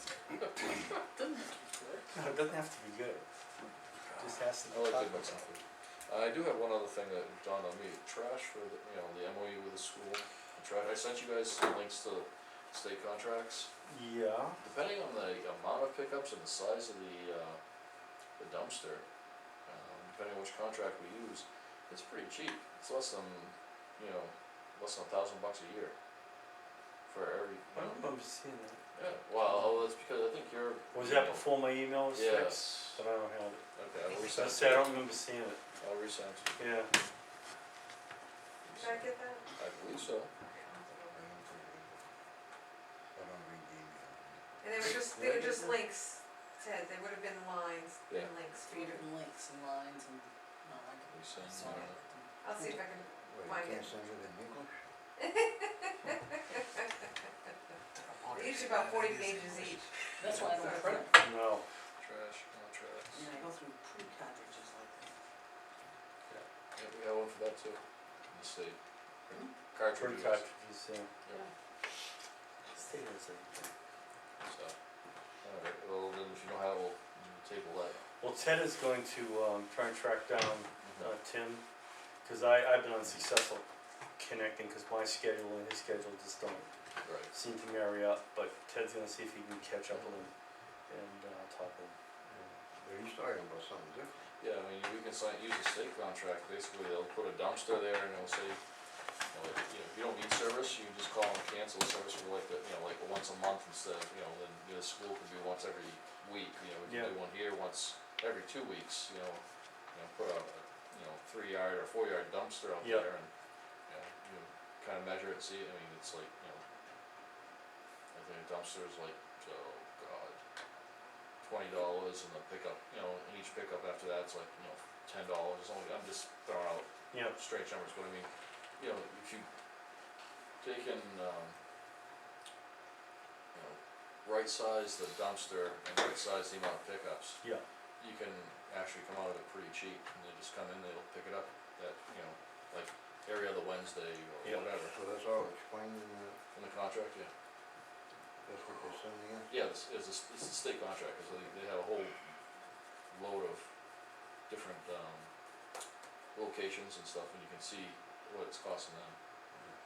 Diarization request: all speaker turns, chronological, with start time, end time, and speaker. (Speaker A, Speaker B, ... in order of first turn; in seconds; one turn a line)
Speaker A: 0.6-0.9
Speaker B: 1.1-2.0
Speaker C: 2.1-3.2
Speaker A: 4.0-13.7
Speaker C: 4.2-5.4
Speaker C: 13.9-14.6
Speaker A: 14.6-17.6
Speaker A: 18.4-19.0
Speaker A: 19.6-25.9
Speaker A: 27.1-28.0
Speaker C: 27.7-28.8
Speaker A: 28.9-33.0
Speaker C: 29.4-29.7
Speaker C: 30.9-35.6
Speaker A: 33.7-35.0
Speaker A: 35.8-36.6
Speaker C: 36.6-36.9
Speaker A: 38.7-39.0
Speaker D: 38.7-39.4
Speaker A: 39.5-40.3
Speaker D: 40.4-41.1
Speaker E: 41.1-42.0
Speaker E: 43.1-45.7
Speaker D: 44.6-49.0
Speaker B: 48.6-52.8
Speaker A: 51.1-52.0
Speaker D: 52.4-53.9
Speaker E: 53.2-54.8
Speaker D: 55.2-56.8
Speaker D: 58.4-59.8
Speaker B: 60.2-61.1
Speaker A: 60.3-60.5
Speaker D: 60.5-61.0
Speaker C: 61.1-61.6
Speaker A: 62.0-63.3
Speaker B: 63.1-65.1
Speaker A: 66.7-70.5
Speaker C: 69.9-71.1
Speaker C: 72.7-73.7
Speaker A: 74.4-74.7
Speaker A: 75.4-78.0
Speaker C: 78.2-81.6
Speaker A: 80.8-81.1
Speaker C: 82.2-83.6
Speaker C: 84.2-86.7
Speaker A: 87.0-87.3
Speaker C: 87.3-90.3
Speaker C: 90.9-92.0
Speaker E: 92.3-94.3
Speaker A: 94.4-98.6
Speaker A: 99.3-109.4
Speaker C: 106.8-107.1
Speaker A: 109.9-113.3
Speaker C: 112.8-113.1
Speaker A: 113.9-116.6
Speaker A: 118.1-120.4
Speaker A: 121.4-129.5
Speaker C: 127.1-127.4
Speaker A: 130.6-131.6
Speaker A: 133.5-137.4
Speaker A: 138.0-144.9
Speaker E: 144.7-146.4
Speaker A: 146.5-147.3
Speaker E: 148.4-149.5
Speaker A: 149.5-152.2
Speaker A: 153.1-153.6
Speaker A: 154.5-155.3
Speaker A: 156.3-159.2